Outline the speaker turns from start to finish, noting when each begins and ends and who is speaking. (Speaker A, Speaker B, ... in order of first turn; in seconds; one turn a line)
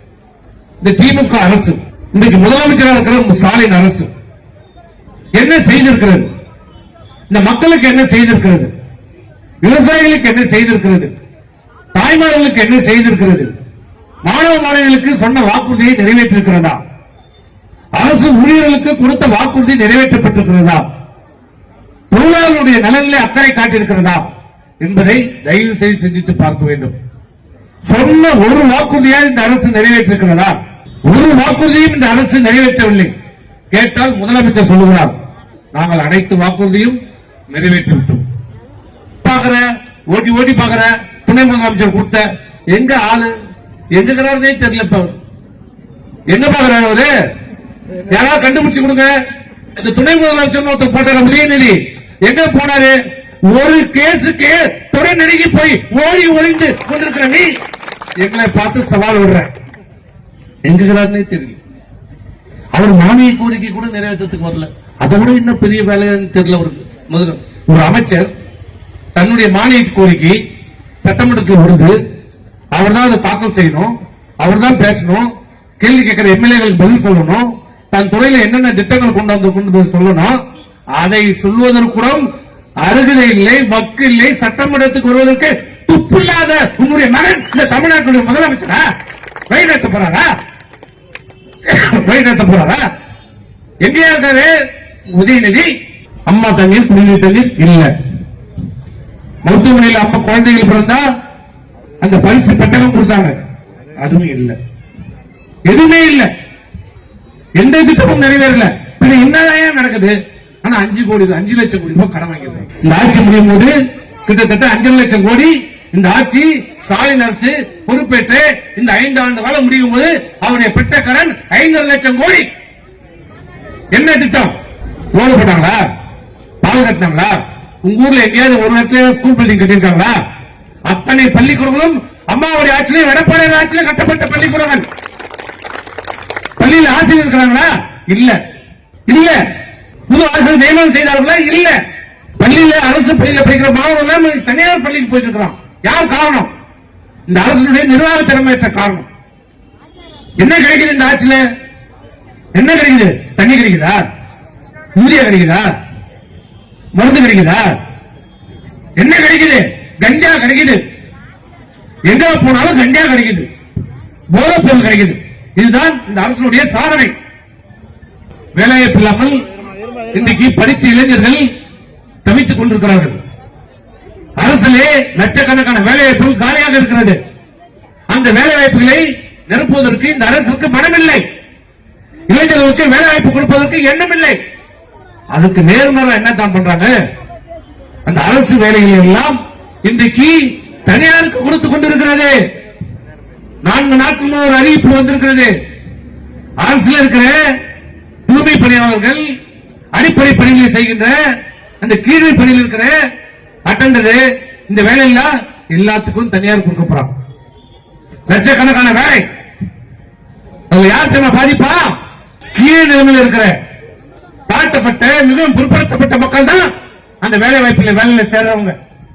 Speaker A: 0.8-4.1
Speaker A: 5.4-6.3
Speaker A: 7.3-8.7
Speaker A: 9.6-11.1
Speaker A: 11.9-13.5
Speaker A: 14.2-16.8
Speaker A: 17.9-20.8
Speaker A: 22.1-24.2
Speaker A: 24.8-26.9
Speaker A: 27.9-30.5
Speaker A: 31.1-33.1
Speaker A: 33.7-35.1
Speaker A: 35.7-37.0
Speaker A: 37.5-38.2
Speaker A: 39.2-43.3
Speaker A: 43.9-45.1
Speaker A: 46.3-47.1
Speaker A: 48.1-49.1
Speaker A: 49.8-53.0
Speaker A: 53.5-57.5
Speaker A: 58.2-59.5
Speaker A: 60.6-61.6
Speaker A: 62.7-68.3
Speaker A: 69.1-70.4
Speaker A: 71.0-72.0
Speaker A: 72.7-75.3
Speaker A: 75.8-80.4
Speaker A: 81.0-82.2
Speaker A: 82.8-88.8
Speaker A: 89.5-90.3
Speaker A: 91.7-92.8
Speaker A: 93.8-94.5
Speaker A: 95.1-95.7
Speaker A: 96.3-97.9
Speaker A: 99.4-101.0
Speaker A: 102.0-103.3
Speaker A: 104.0-104.6
Speaker A: 105.7-106.3
Speaker A: 107.6-113.7
Speaker A: 114.2-122.5
Speaker A: 123.9-124.5
Speaker A: 125.1-125.8
Speaker A: 126.6-130.2
Speaker A: 130.9-134.8
Speaker A: 136.6-138.4
Speaker A: 139.1-139.4
Speaker A: 140.1-141.8
Speaker A: 142.4-146.5
Speaker A: 147.3-149.1
Speaker A: 150.4-151.4
Speaker A: 152.5-154.0
Speaker A: 154.9-155.7
Speaker A: 156.9-157.6
Speaker A: 159.0-160.8
Speaker A: 162.1-163.5
Speaker A: 164.3-167.1
Speaker A: 168.6-169.4
Speaker A: 170.1-171.4
Speaker A: 172.2-173.2
Speaker A: 174.4-177.2
Speaker A: 178.1-181.2
Speaker A: 182.3-184.4
Speaker A: 185.3-186.9
Speaker A: 188.1-192.3
Speaker A: 193.6-195.5
Speaker A: 196.6-197.4
Speaker A: 198.3-199.2
Speaker A: 199.9-201.2
Speaker A: 201.8-203.0
Speaker A: 203.7-207.1
Speaker A: 208.3-209.2
Speaker A: 210.7-211.9
Speaker A: 212.6-213.5
Speaker A: 214.5-216.7
Speaker A: 217.2-218.8